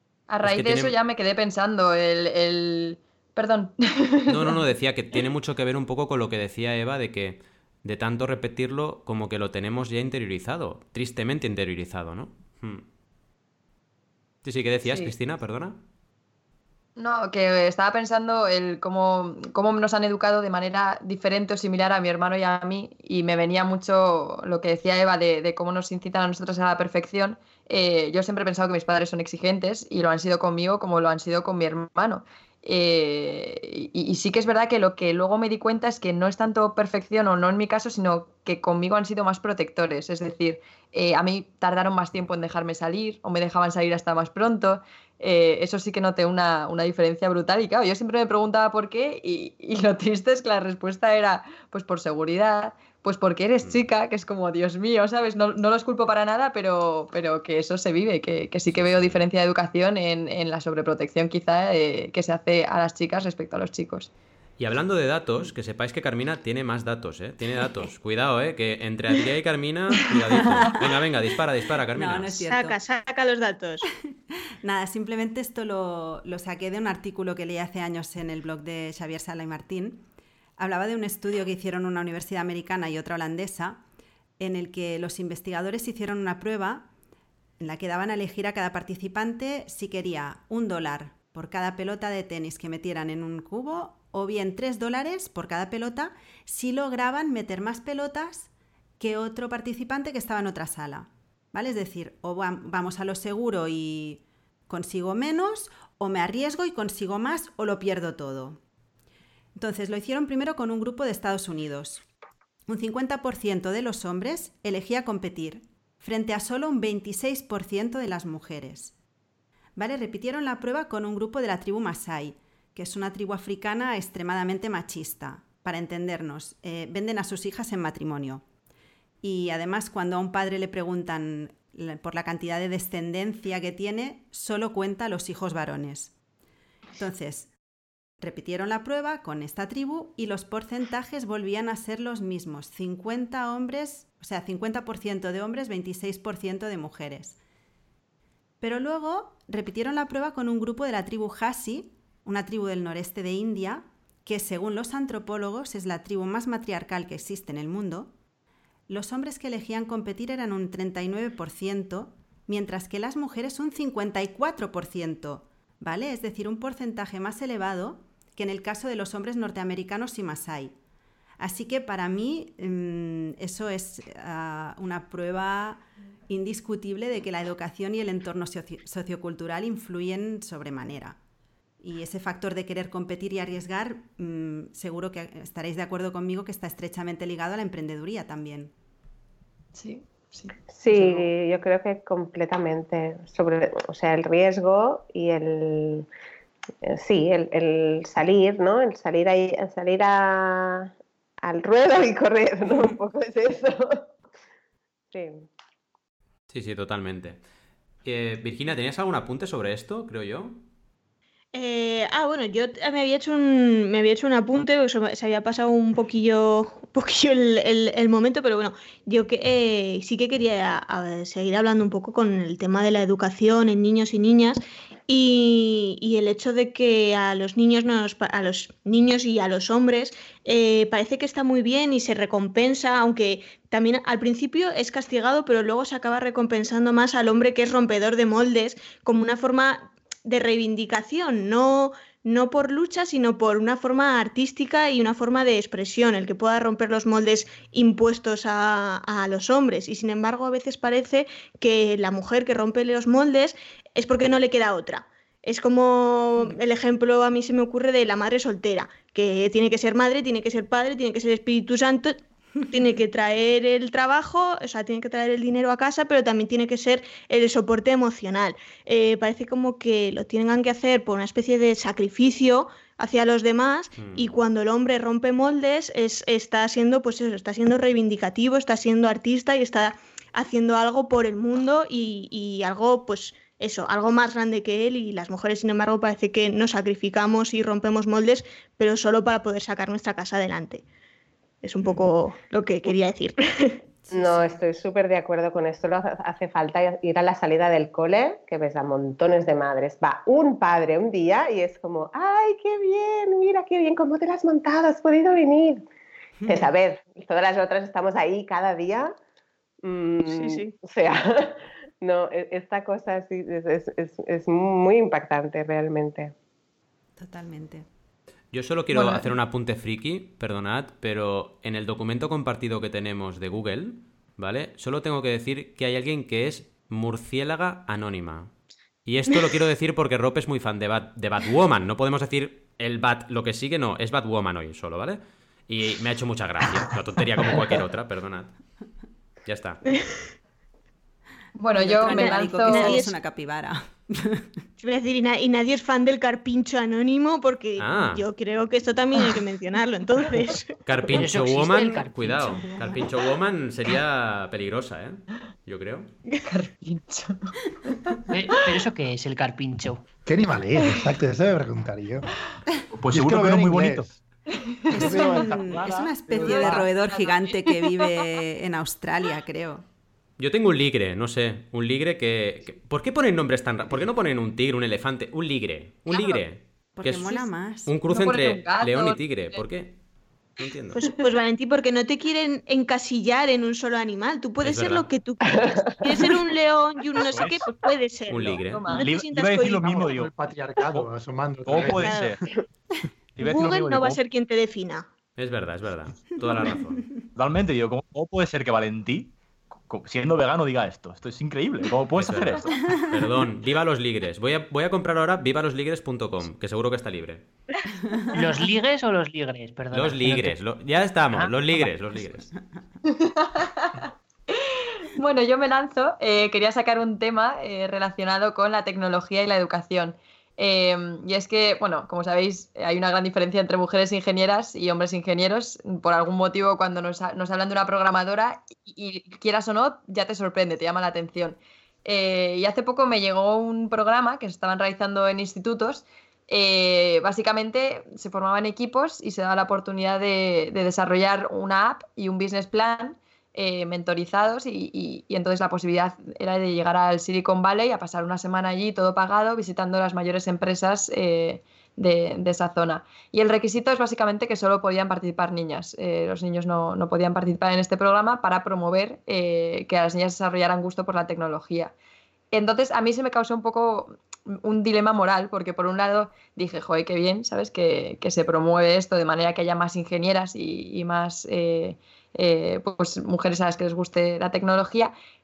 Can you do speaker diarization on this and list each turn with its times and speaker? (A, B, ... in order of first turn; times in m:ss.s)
0:00.3-0:04.5 A
0:00.4-0:01.0 B
0:04.3-0:12.9 B
0:14.4-0:15.8 B
0:14.8-0:15.1 A
0:17.0-1:04.1 A
0:58.8-0:59.1 B
1:04.6-1:12.4 B
1:10.4-1:10.8 C
1:11.9-1:12.8 C
1:12.5-1:13.9 D
1:14.6-1:20.0 C
1:20.6-1:23.8 C
1:24.4-1:26.9 C
1:27.6-1:48.6 C
1:49.6-1:52.1 C
1:52.7-1:58.9 C
1:59.8-2:08.4 C
2:09.2-2:16.1 C
2:17.0-2:17.5 C
2:18.2-2:27.4 C
2:28.6-2:38.1 C
2:38.9-2:50.8 C
2:51.4-3:01.2 C
3:01.8-3:08.7 C
3:09.8-3:11.3 A
3:10.7-3:16.1 E
3:16.8-3:24.0 E
3:25.1-3:25.4 E
3:26.5-3:27.4 B
3:28.0-3:30.6 B
3:31.5-4:50.8 D
4:34.0-4:34.3 B
4:51.6-4:53.8 D
4:54.1-5:05.8 E
5:06.5-5:09.1 E
5:09.8-5:16.3 E
5:10.3-5:10.7 D
5:17.2-5:17.9 C
5:18.5-5:28.5 B
5:18.9-5:19.3 A
5:29.0-5:38.6 B
5:39.5-5:39.8 B
5:39.9-5:40.2 D
5:41.6-5:43.0 A
5:41.8-5:44.6 C
5:42.0-5:43.1 D
5:44.8-5:50.8 D
5:47.8-5:48.2 B
5:50.9-5:56.1 B
5:51.1-5:52.9 F
5:56.5-5:58.8 A
5:58.3-6:00.0 F
6:00.3-6:02.3 G
6:03.0-6:04.1 H
6:03.1-6:04.2 G
6:04.7-6:05.5 A
6:04.9-6:06.9 G
6:04.9-6:09.8 C
6:06.4-6:08.0 A
6:10.4-6:20.0 B
6:16.1-6:16.4 A
6:17.0-6:17.9 C
6:18.0-6:19.6 A
6:20.6-6:21.0 B
6:21.0-6:30.0 D
6:24.6-6:25.1 B
6:25.5-6:26.2 E
6:27.3-6:27.5 H
6:28.3-6:29.0 B
6:28.4-6:29.1 A
6:29.0-6:31.1 H
6:29.7-6:32.3 G
6:31.6-6:32.4 H
6:31.7-6:32.4 D
6:33.4-6:34.2 H
6:33.4-6:35.1 D
6:35.4-6:37.1 B
6:37.4-6:39.3 H
6:39.9-6:42.7 H
6:42.2-6:47.5 B
6:48.3-6:50.6 F
6:49.9-6:52.5 B
6:51.3-6:51.9 F
6:53.1-7:41.9 A
7:42.5-7:55.1 A